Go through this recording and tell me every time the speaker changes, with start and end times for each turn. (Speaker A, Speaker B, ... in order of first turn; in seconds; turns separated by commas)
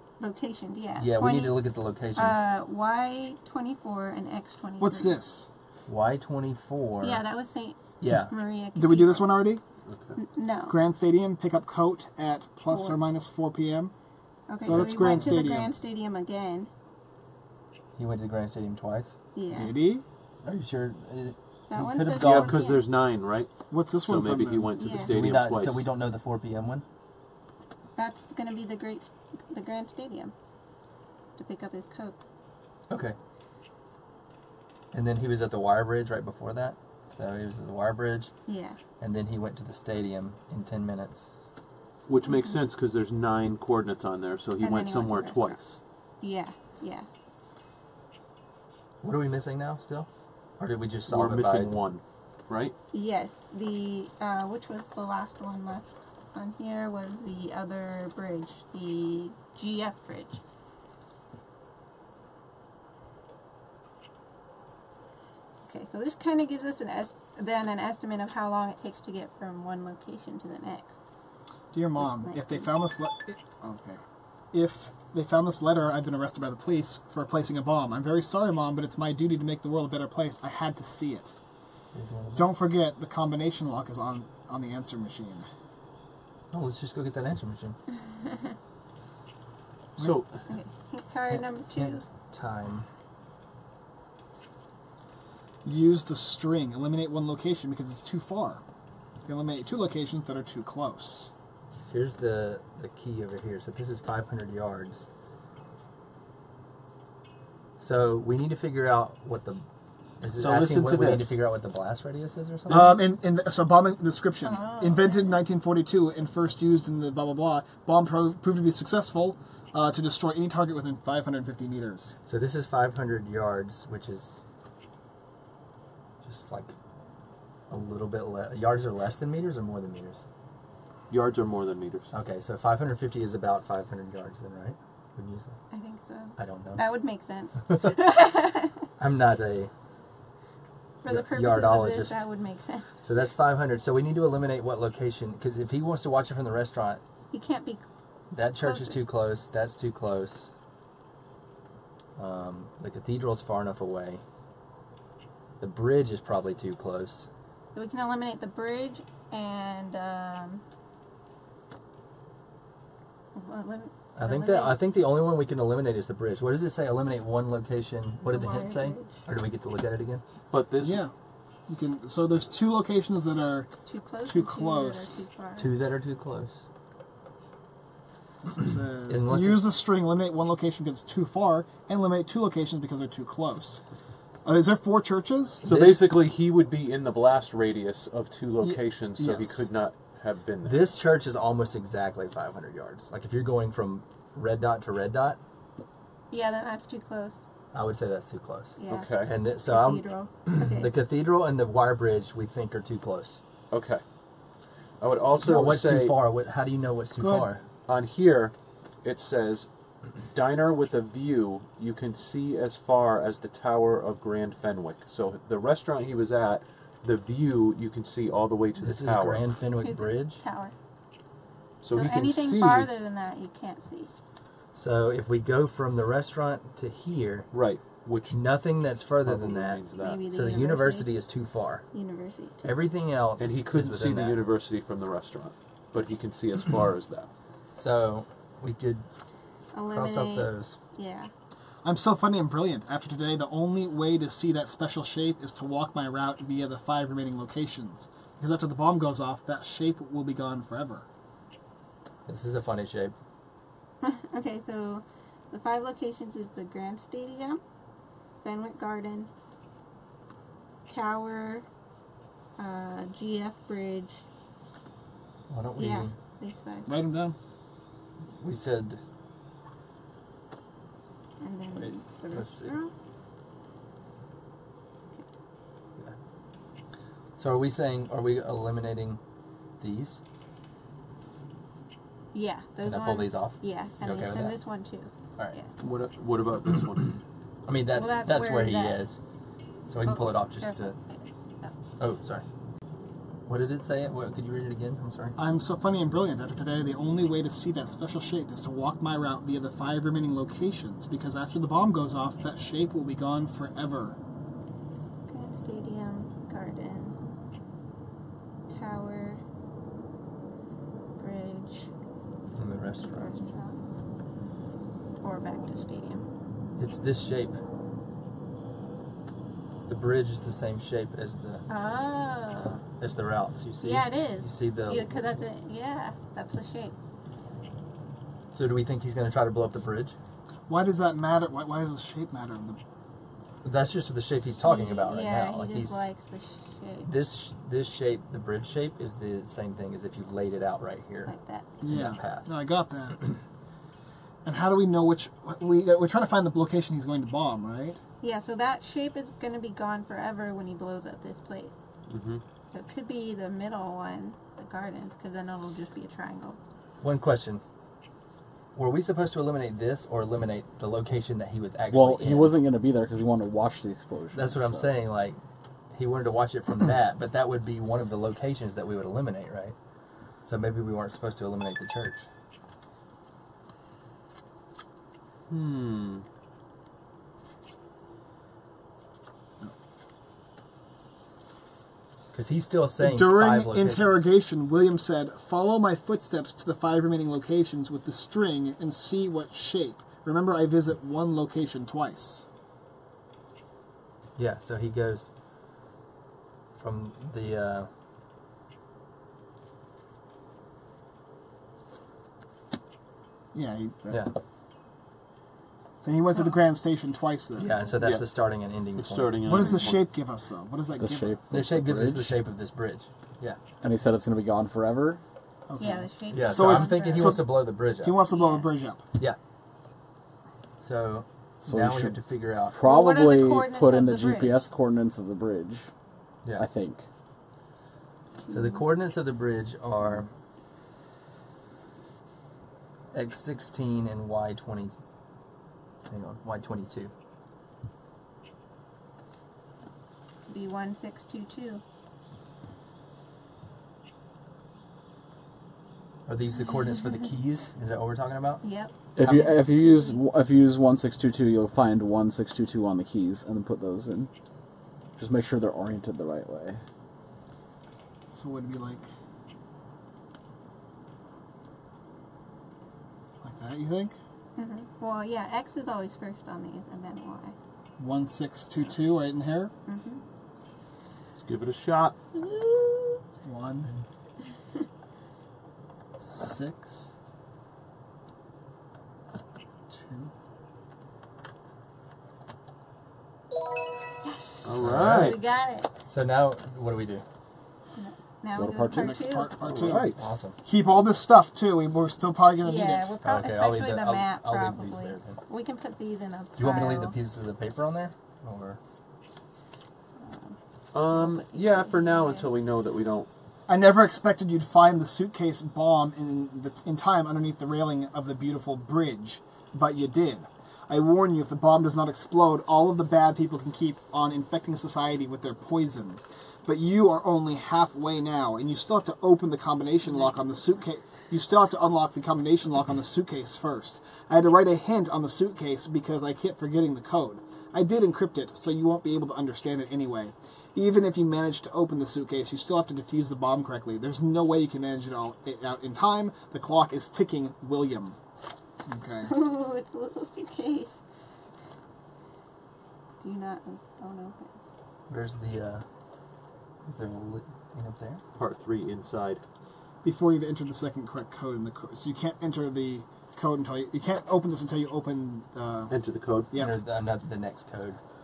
Speaker A: 0.2-1.6, Speaker B: 1.0-2.4, Speaker A: 2.1-5.2, Speaker C: 4.8-5.5, Speaker B: 5.9-7.2, Speaker A: 7.0-9.3, Speaker B: 8.0-8.3, Speaker C: 8.7-9.6, Speaker D: 9.9-10.2, Speaker A: 10.2-10.8, Speaker C: 10.7-13.9, Speaker A: 12.7-13.0, Speaker A: 14.5-16.7, Speaker C: 14.6-15.7, Speaker B: 14.6-15.5, Speaker B: 17.9-19.1, Speaker A: 19.3-19.7, Speaker C: 19.5-20.0, Speaker B: 20.4-22.6, Speaker A: 21.7-22.9, Speaker D: 22.2-25.9, Speaker C: 23.7-24.8, Speaker A: 24.8-25.1, Speaker B: 25.0-26.8, Speaker A: 27.9-30.3, Speaker A: 31.4-32.2, Speaker B: 32.9-33.2, Speaker B: 34.9-38.3, Speaker A: 38.5-38.8, Speaker B: 39.0-41.3, Speaker D: 42.1-45.8, Speaker A: 42.3-42.5, Speaker A: 44.6-45.6, Speaker A: 46.2-47.1, Speaker B: 49.0-51.8, Speaker D: 51.1-52.7, Speaker A: 52.9-60.4, Speaker A: 65.6-70.9, Speaker C: 71.7-74.0, Speaker A: 72.0-72.7, Speaker C: 74.5-81.3, Speaker B: 81.9-82.5, Speaker C: 82.3-85.5, Speaker B: 86.5-87.8, Speaker D: 90.0-90.4, Speaker A: 90.5-92.0, Speaker B: 91.3-92.9, Speaker C: 95.6-98.6, Speaker C: 99.2-101.3, Speaker B: 101.9-105.1, Speaker B: 107.8-109.6, Speaker B: 110.2-113.0, Speaker D: 110.3-111.3, Speaker C: 112.7-122.1, Speaker A: 114.4-115.4, Speaker B: 122.2-124.4, Speaker B: 126.2-126.8, Speaker B: 127.7-130.2, Speaker D: 131.1-132.1, Speaker B: 132.1-135.6, Speaker A: 135.7-138.9, Speaker B: 136.4-136.8, Speaker B: 137.7-137.9, Speaker B: 139.0-139.7, Speaker A: 141.0-142.9, Speaker B: 141.0-142.3, Speaker B: 143.0-147.0, Speaker A: 147.3-147.8, Speaker B: 148.3-150.5, Speaker A: 148.6-149.0, Speaker B: 152.2-154.2, Speaker B: 155.6-157.3, Speaker A: 157.7-160.6, Speaker A: 163.3-164.8, Speaker B: 164.1-170.2, Speaker A: 168.2-169.2, Speaker D: 170.5-171.0, Speaker C: 170.8-171.1, Speaker C: 171.7-173.7, Speaker A: 173.8-175.7, Speaker C: 174.2-175.1, Speaker B: 175.6-176.6, Speaker C: 178.5-183.8, Speaker B: 179.1-179.7, Speaker C: 184.4-185.6, Speaker B: 185.6-186.1, Speaker D: 185.6-190.8, Speaker C: 188.6-189.6, Speaker B: 190.6-195.4, Speaker A: 196.3-197.4, Speaker B: 197.7-203.4, Speaker A: 198.8-200.9, Speaker D: 198.9-199.3, Speaker D: 203.7-204.0, Speaker D: 205.0-206.2, Speaker B: 205.4-207.6, Speaker C: 207.2-207.5, Speaker D: 207.9-219.4, Speaker B: 218.8-220.4, Speaker A: 219.8-220.7, Speaker D: 221.8-222.9, Speaker A: 221.9-224.1, Speaker B: 224.7-227.5, Speaker D: 227.5-228.5, Speaker B: 228.3-231.8, Speaker D: 229.2-230.2, Speaker A: 230.0-231.1, Speaker A: 231.9-232.7, Speaker B: 232.6-234.4, Speaker D: 233.4-237.3, Speaker B: 237.8-239.1, Speaker A: 239.7-241.3, Speaker B: 239.9-240.8, Speaker C: 241.8-251.1, Speaker B: 252.2-253.1, Speaker A: 254.0-257.6, Speaker A: 258.4-259.3, Speaker A: 260.9-261.6, Speaker A: 262.6-264.2, Speaker B: 265.5-266.1, Speaker A: 265.8-266.9, Speaker C: 266.9-267.4, Speaker B: 268.3-269.0, Speaker A: 271.4-272.9, Speaker B: 271.8-272.8, Speaker B: 277.4-279.2, Speaker B: 279.8-280.2, Speaker A: 282.3-285.7, Speaker B: 282.8-284.6, Speaker D: 285.8-287.2, Speaker B: 287.6-289.2, Speaker A: 287.9-289.0, Speaker B: 289.9-290.9, Speaker A: 290.0-291.7, Speaker B: 292.0-292.4, Speaker B: 293.5-295.4, Speaker C: 295.4-304.1, Speaker A: 305.3-307.1, Speaker A: 308.7-309.4, Speaker A: 311.2-311.9, Speaker B: 312.5-313.3, Speaker A: 313.1-313.8, Speaker A: 315.2-316.3, Speaker B: 316.8-317.6, Speaker B: 319.9-321.6, Speaker A: 321.7-322.8, Speaker B: 323.0-325.4, Speaker A: 323.8-326.9, Speaker B: 328.5-330.1, Speaker C: 330.7-332.8, Speaker B: 333.6-336.1, Speaker A: 334.6-337.1, Speaker B: 337.0-342.5, Speaker A: 341.3-341.7, Speaker C: 341.8-343.3, Speaker C: 344.4-348.0, Speaker A: 348.2-351.7, Speaker D: 352.1-352.4, Speaker A: 352.7-356.6, Speaker B: 357.0-357.6, Speaker B: 358.7-362.6, Speaker E: 361.9-364.9, Speaker B: 364.3-369.8, Speaker B: 370.4-372.3, Speaker D: 375.5-376.2, Speaker B: 382.3-384.2, Speaker C: 383.0-392.4, Speaker B: 394.4-395.3, Speaker B: 396.7-397.9, Speaker C: 403.5-404.3, Speaker C: 406.0-407.8, Speaker B: 407.6-409.4, Speaker D: 408.0-408.3, Speaker D: 408.9-410.1, Speaker C: 409.4-411.4, Speaker E: 411.0-412.4, Speaker B: 411.5-413.6, Speaker E: 413.8-415.2, Speaker C: 415.7-419.0, Speaker A: 415.8-417.4, Speaker B: 416.3-418.1, Speaker A: 418.3-418.7, Speaker B: 420.8-422.8, Speaker E: 421.6-425.9, Speaker A: 422.8-424.6, Speaker E: 426.6-427.0, Speaker A: 428.4-428.8, Speaker B: 428.5-430.3, Speaker B: 433.1-435.0, Speaker B: 436.1-437.1, Speaker A: 440.4-441.8, Speaker B: 446.2-448.6, Speaker A: 448.6-448.9, Speaker E: 449.1-454.3, Speaker B: 449.2-449.6, Speaker A: 449.7-450.2, Speaker E: 455.2-456.8, Speaker C: 458.3-459.1, Speaker C: 463.4-464.1, Speaker A: 464.6-467.5, Speaker C: 468.0-469.7, Speaker A: 469.9-470.2, Speaker D: 471.4-472.1, Speaker A: 472.3-473.2, Speaker C: 473.4-473.9, Speaker C: 476.2-477.1, Speaker C: 479.9-480.3, Speaker A: 484.2-485.9, Speaker D: 484.6-485.4, Speaker B: 484.8-485.4, Speaker B: 486.1-487.2, Speaker A: 487.9-489.6, Speaker E: 488.5-489.3, Speaker C: 488.9-493.1, Speaker D: 489.6-490.2, Speaker B: 490.1-490.6, Speaker A: 492.6-497.2, Speaker B: 493.2-495.4, Speaker B: 496.6-498.8, Speaker A: 500.2-502.5, Speaker D: 500.9-503.3, Speaker C: 503.7-538.1, Speaker A: 520.0-520.8, Speaker C: 538.9-539.3, Speaker A: 539.2-541.0, Speaker A: 543.2-544.5, Speaker B: 545.1-545.9, Speaker B: 546.8-548.2, Speaker D: 548.3-549.4, Speaker C: 550.0-555.9, Speaker D: 555.9-556.5, Speaker C: 556.5-556.8, Speaker B: 556.5-558.0